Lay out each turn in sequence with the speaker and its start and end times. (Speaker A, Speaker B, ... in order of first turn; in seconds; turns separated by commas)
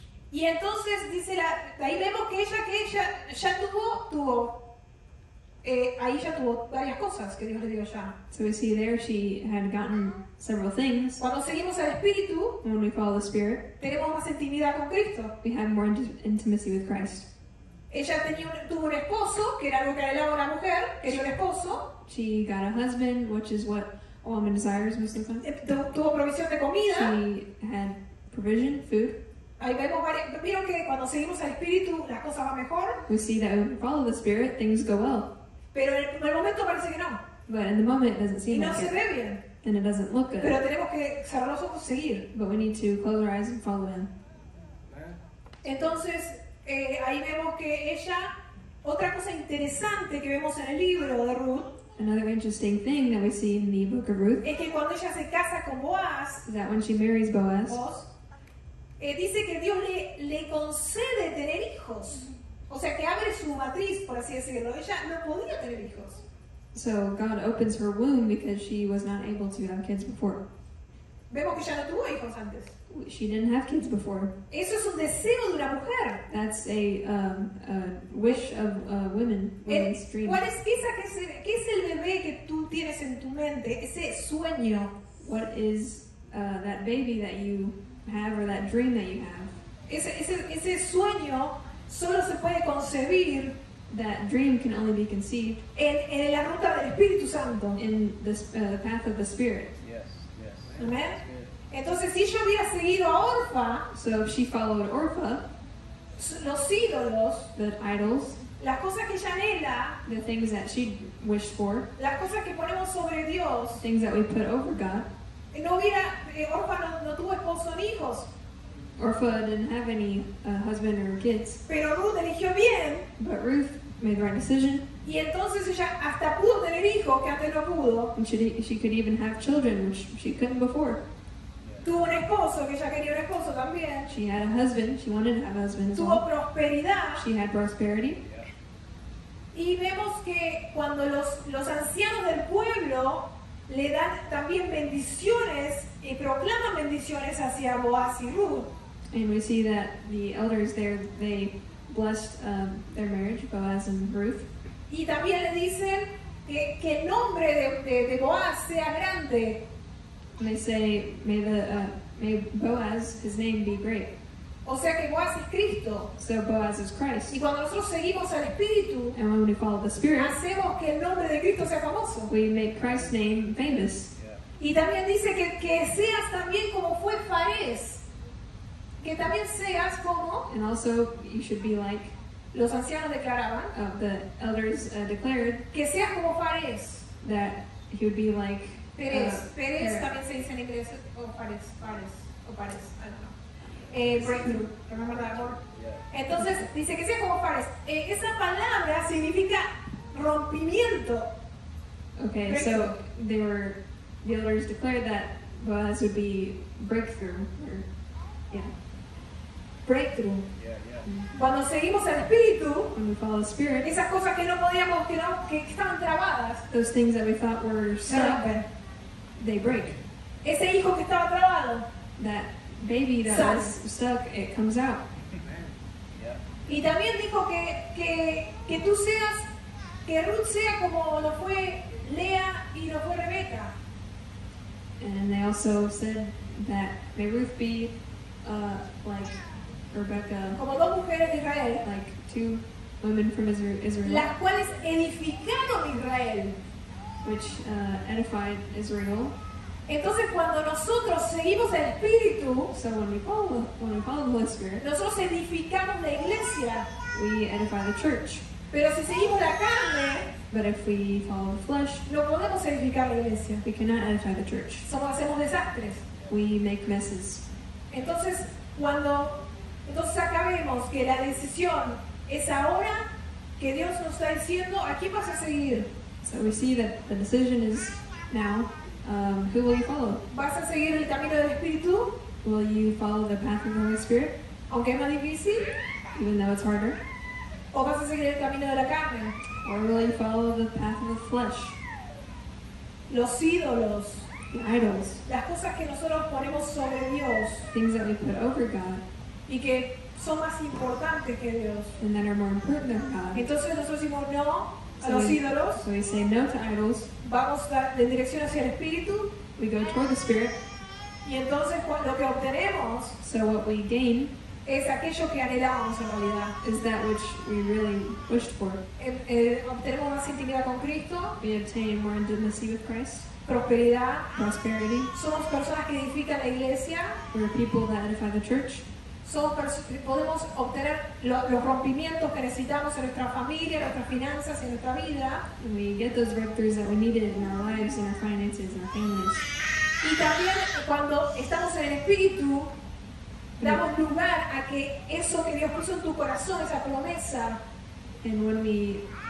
Speaker A: 0.3-4.5, Speaker A: 5.6-8.1, Speaker B: 8.3-11.2, Speaker A: 11.2-12.6, Speaker B: 12.6-13.6, Speaker A: 13.8-15.3, Speaker B: 15.4-17.2, Speaker A: 17.9-21.9, Speaker B: 22.1-25.4, Speaker A: 25.4-27.1, Speaker B: 26.9-29.2, Speaker A: 29.6-33.0, Speaker B: 33.1-35.3, Speaker A: 35.7-37.2, Speaker B: 37.5-38.9, Speaker A: 38.5-39.4, Speaker B: 39.6-40.6, Speaker A: 40.4-42.2, Speaker B: 42.3-44.1, Speaker A: 45.6-48.3, Speaker A: 48.8-51.7, Speaker B: 52.0-54.4, Speaker A: 54.4-56.4, Speaker B: 56.4-57.8, Speaker A: 57.7-58.1, Speaker A: 59.0-66.2, Speaker B: 66.7-70.4, Speaker A: 71.3-72.7, Speaker B: 72.9-74.3, Speaker A: 74.5-76.2, Speaker B: 76.3-80.4, Speaker A: 79.7-84.9, Speaker B: 85.2-89.5, Speaker A: 89.9-93.5, Speaker B: 93.9-95.6, Speaker A: 95.7-97.8, Speaker B: 97.8-99.8, Speaker C: 99.8-101.5, Speaker A: 100.8-101.2, Speaker A: 101.7-103.8, Speaker B: 103.9-105.4, Speaker A: 106.2-107.5, Speaker B: 107.5-108.4, Speaker A: 108.6-110.0, Speaker B: 110.0-111.8, Speaker A: 112.0-113.8, Speaker B: 113.8-115.1, Speaker A: 115.5-118.3, Speaker B: 119.0-121.6, Speaker A: 121.7-123.1, Speaker B: 123.2-124.9, Speaker A: 125.0-128.1, Speaker B: 128.1-131.0, Speaker C: 131.6-131.9, Speaker A: 131.8-134.1, Speaker B: 134.1-136.2, Speaker A: 135.9-137.2, Speaker B: 137.2-138.2, Speaker C: 138.2-138.5, Speaker A: 139.5-148.7, Speaker B: 149.1-154.5, Speaker A: 154.9-159.6, Speaker B: 160.4-164.1, Speaker A: 164.6-166.1, Speaker B: 166.2-167.4, Speaker A: 167.3-169.2, Speaker B: 169.1-170.3, Speaker A: 170.2-172.3, Speaker B: 172.3-174.1, Speaker C: 174.1-174.4, Speaker A: 174.6-178.0, Speaker A: 179.0-180.5, Speaker B: 180.5-182.1, Speaker A: 182.5-183.7, Speaker B: 183.7-185.7, Speaker A: 185.7-187.1, Speaker B: 187.2-190.1, Speaker A: 189.0-193.3, Speaker A: 193.9-195.6, Speaker C: 195.6-196.1, Speaker A: 196.1-201.3, Speaker B: 202.2-207.8, Speaker A: 202.5-202.9, Speaker A: 209.8-210.4, Speaker C: 210.6-211.1, Speaker B: 211.0-211.3, Speaker A: 211.3-212.9, Speaker B: 212.9-213.9, Speaker A: 213.8-216.6, Speaker B: 216.7-218.5, Speaker A: 218.1-218.6, Speaker B: 219.4-220.0, Speaker A: 220.4-221.8, Speaker B: 222.2-225.0, Speaker A: 223.2-223.7, Speaker C: 226.1-226.4, Speaker A: 226.7-229.5, Speaker A: 230.1-233.7, Speaker B: 235.0-237.9, Speaker B: 238.4-239.4, Speaker B: 239.9-240.6, Speaker A: 240.6-241.8, Speaker B: 241.8-244.3, Speaker A: 244.0-246.6, Speaker B: 247.2-249.3, Speaker A: 249.9-252.7, Speaker B: 252.7-254.8, Speaker A: 254.8-256.9, Speaker B: 257.1-258.4, Speaker A: 258.7-260.3, Speaker B: 260.5-262.0, Speaker A: 262.1-263.6, Speaker B: 263.6-264.9, Speaker A: 264.8-266.0, Speaker B: 266.3-267.4, Speaker A: 267.9-273.0, Speaker A: 273.6-275.9, Speaker B: 276.2-280.2, Speaker A: 280.3-282.1, Speaker B: 282.4-284.3, Speaker A: 284.7-285.7, Speaker B: 286.1-287.0, Speaker A: 287.7-289.3, Speaker B: 289.6-291.8, Speaker A: 293.1-294.3, Speaker B: 294.5-295.2, Speaker A: 295.2-297.7, Speaker B: 297.7-299.0, Speaker A: 299.5-301.9, Speaker B: 302.0-303.5, Speaker A: 303.3-305.8, Speaker B: 305.0-307.1, Speaker A: 307.2-309.3, Speaker B: 309.6-310.6, Speaker A: 311.2-313.1, Speaker B: 313.2-314.3, Speaker A: 314.6-316.6, Speaker B: 316.6-318.8, Speaker A: 319.0-321.4, Speaker B: 321.4-323.3, Speaker A: 323.4-324.3, Speaker B: 324.3-325.1, Speaker A: 325.1-327.2, Speaker B: 327.3-328.8, Speaker A: 329.2-335.4, Speaker B: 335.6-339.5, Speaker A: 340.0-342.7, Speaker B: 343.6-343.8, Speaker A: 343.6-347.6, Speaker B: 348.2-349.0